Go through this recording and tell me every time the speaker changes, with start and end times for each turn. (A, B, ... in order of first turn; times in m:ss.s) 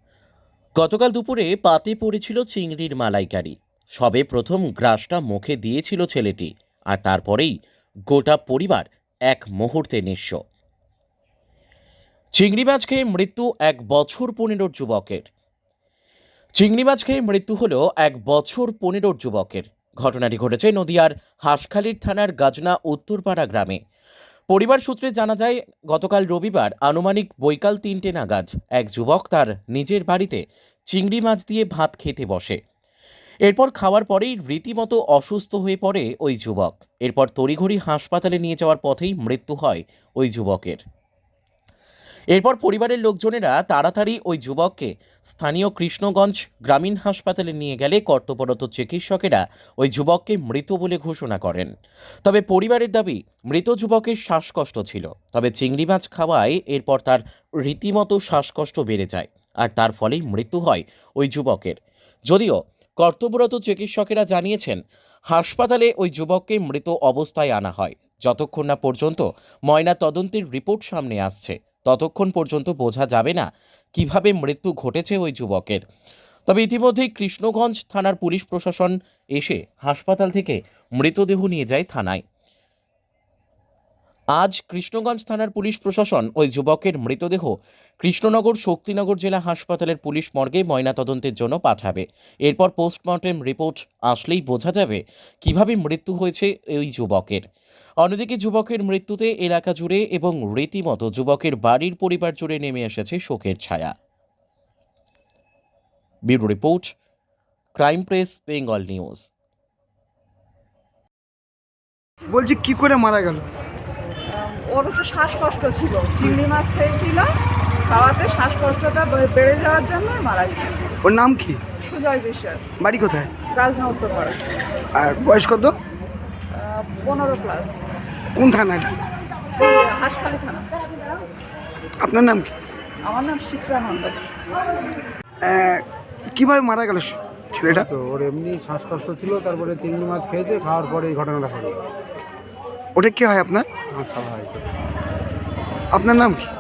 0:00.8-0:07.5 A
0:08.1-0:10.4 A
0:12.4-0:15.3 A
0:16.6-0:23.8 A
0:24.5-0:32.6 A
0:33.4-0:40.8 A
0:42.3-0:51.7 A
0:52.2-1:01.8 A
1:02.3-1:15.8 A
1:16.5-1:22.2 A
1:24.4-1:37.4 A
1:38.0-1:43.9 A
1:46.3-1:46.9 A
1:47.8-1:49.3 A
1:52.3-1:53.4 B
1:54.3-1:57.3 C
1:57.8-2:00.9 C
2:01.0-2:01.6 B
2:01.8-2:02.7 C
2:02.8-2:03.3 B
2:03.5-2:04.4 C
2:05.0-2:05.8 B
2:06.5-2:07.8 C
2:08.4-2:09.0 B
2:09.6-2:10.7 C
2:12.0-2:12.5 B
2:13.0-2:14.3 C
2:15.4-2:17.9 B
2:17.7-2:21.8 D
2:23.0-2:23.7 B
2:23.9-2:24.6 D
2:25.9-2:26.5 B